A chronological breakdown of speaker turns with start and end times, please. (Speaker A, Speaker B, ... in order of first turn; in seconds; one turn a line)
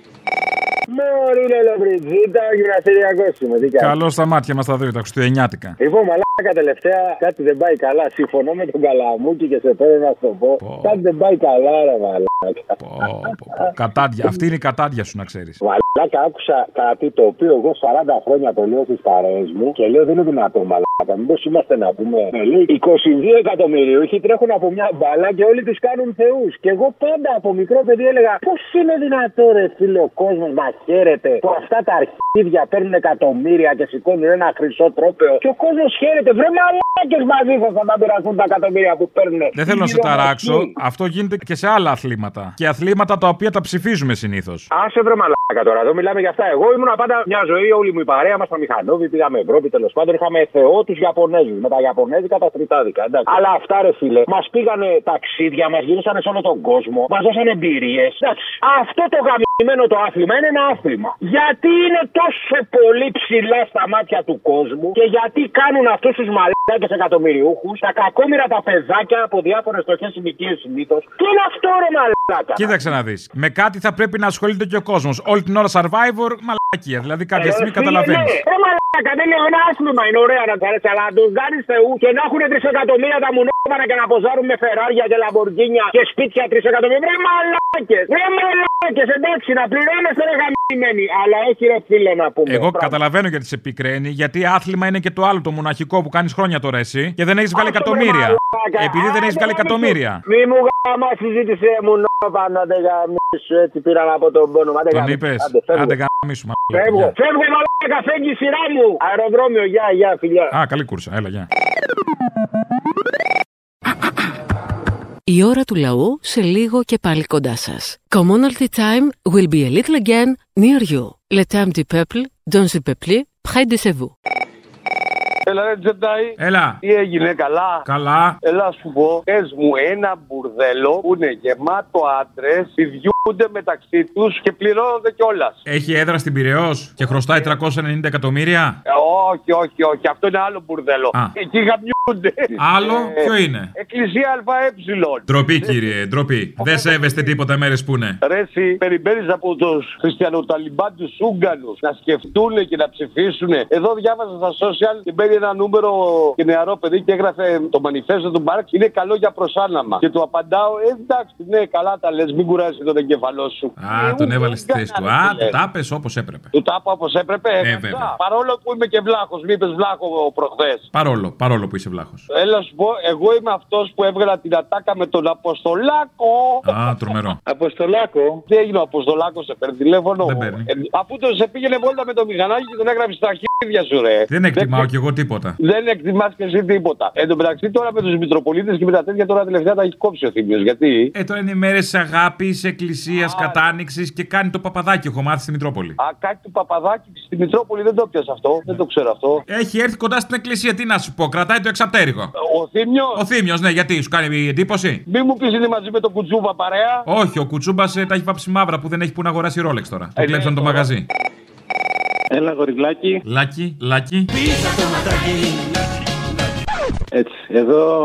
Speaker A: 0.9-3.9
Speaker B: 3.8-5.8
Speaker A: 5.8-12.8
Speaker B: 10.6-11.0
Speaker B: 12.8-15.6
Speaker A: 15.6-40.7
Speaker B: 39.5-44.7
Speaker A: 44.7-72.7
Speaker B: 72.5-78.4
Speaker A: 77.3-93.0
Speaker B: 92.5-100.2
Speaker A: 97.5-105.9
Speaker B: 104.9-107.1
Speaker A: 106.7-110.5
Speaker B: 110.5-111.5
Speaker C: 115.3-124.1
Speaker D: 125.5-127.8
Speaker B: 126.4-126.8
Speaker B: 127.8-128.4
Speaker D: 128.4-135.6
Speaker B: 135.6-138.8
Speaker D: 137.0-137.5
Speaker D: 138.9-145.8
Speaker B: 142.6-143.7
Speaker B: 145.2-148.2
Speaker D: 146.6-147.3
Speaker D: 148.2-165.6
Speaker B: 163.8-166.5
Speaker D: 166.5-170.8
Speaker B: 167.6-168.1
Speaker B: 170.9-172.2
Speaker D: 172.3-176.6
Speaker B: 176.6-177.4
Speaker D: 178.5-184.9
Speaker B: 180.2-180.7
Speaker B: 184.3-185.5
Speaker D: 185.6-191.1
Speaker B: 191.1-196.0
Speaker D: 193.1-193.7
Speaker D: 196.0-199.4
Speaker B: 199.5-202.3
Speaker D: 202.4-203.2
Speaker B: 203.1-205.0
Speaker D: 205.1-207.0
Speaker B: 207.1-211.1
Speaker D: 210.2-210.9
Speaker B: 213.2-214.3